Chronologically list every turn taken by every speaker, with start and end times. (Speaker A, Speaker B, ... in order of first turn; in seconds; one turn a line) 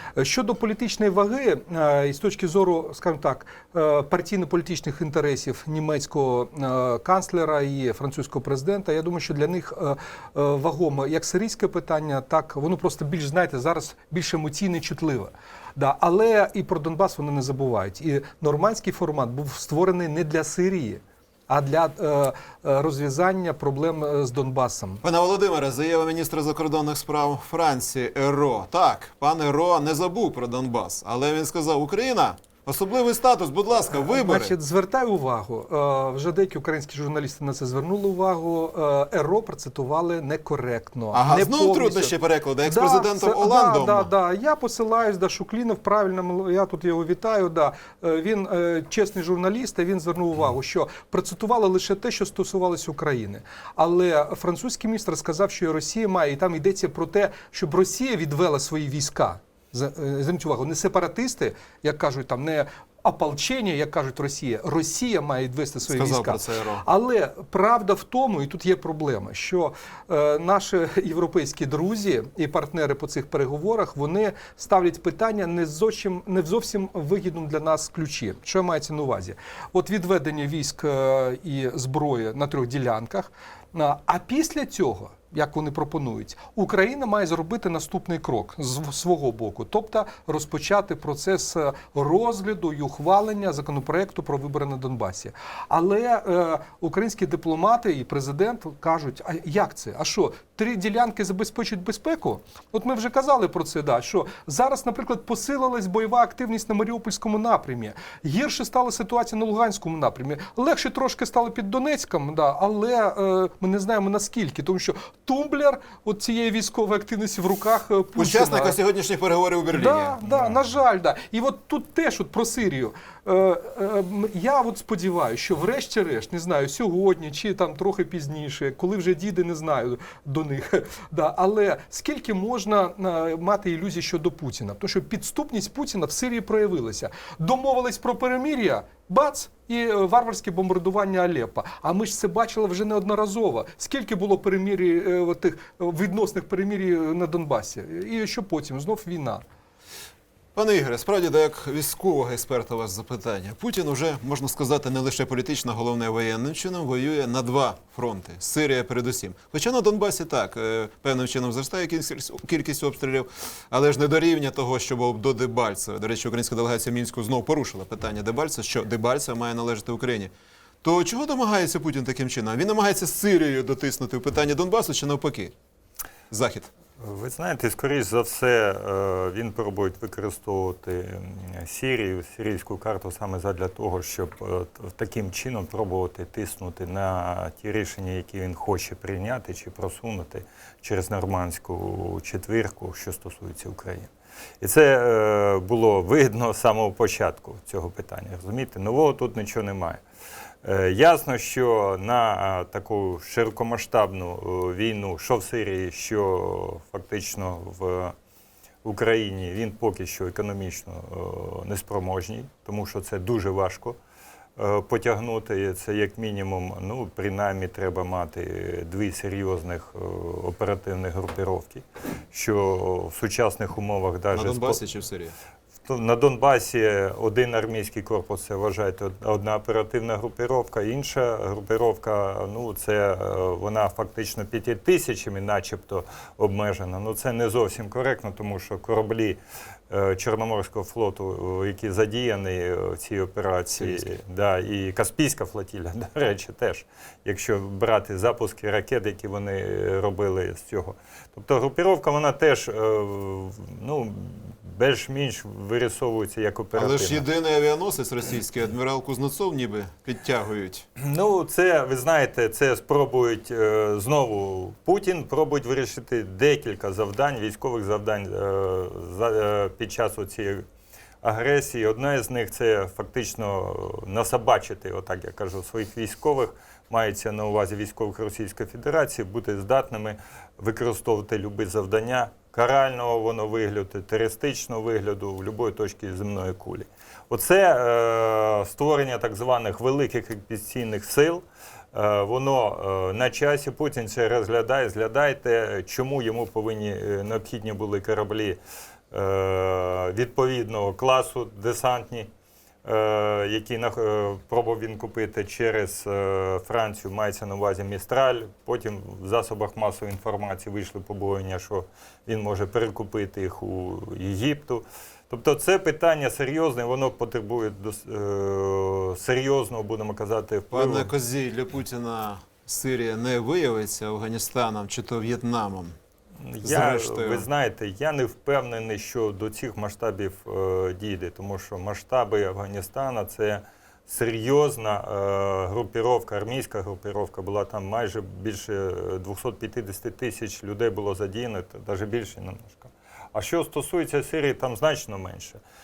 Speaker A: 0.1-25.0
Speaker B: 25.0-34.5
Speaker A: 33.9-118.8
Speaker B: 41.1-44.1
Speaker B: 65.8-66.8
Speaker B: 118.2-120.5
Speaker A: 119.7-149.4
Speaker B: 150.5-170.3
Speaker B: 170.8-175.5
Speaker B: 176.3-176.7
Speaker C: 177.0-194.1
Speaker C: 194.6-200.0
Speaker C: 200.6-208.1
Speaker C: 208.8-214.0
Speaker C: 214.6-224.8
Speaker B: 224.3-225.3
Speaker C: 225.8-239.4
Speaker C: 239.9-257.2
Speaker B: 243.8-244.0
Speaker B: 256.7-260.9
Speaker C: 261.0-270.6
Speaker C: 271.2-298.6
Speaker C: 299.1-302.3
Speaker C: 302.8-321.1
Speaker B: 320.7-325.9
Speaker C: 326.4-345.6
Speaker B: 326.6-327.5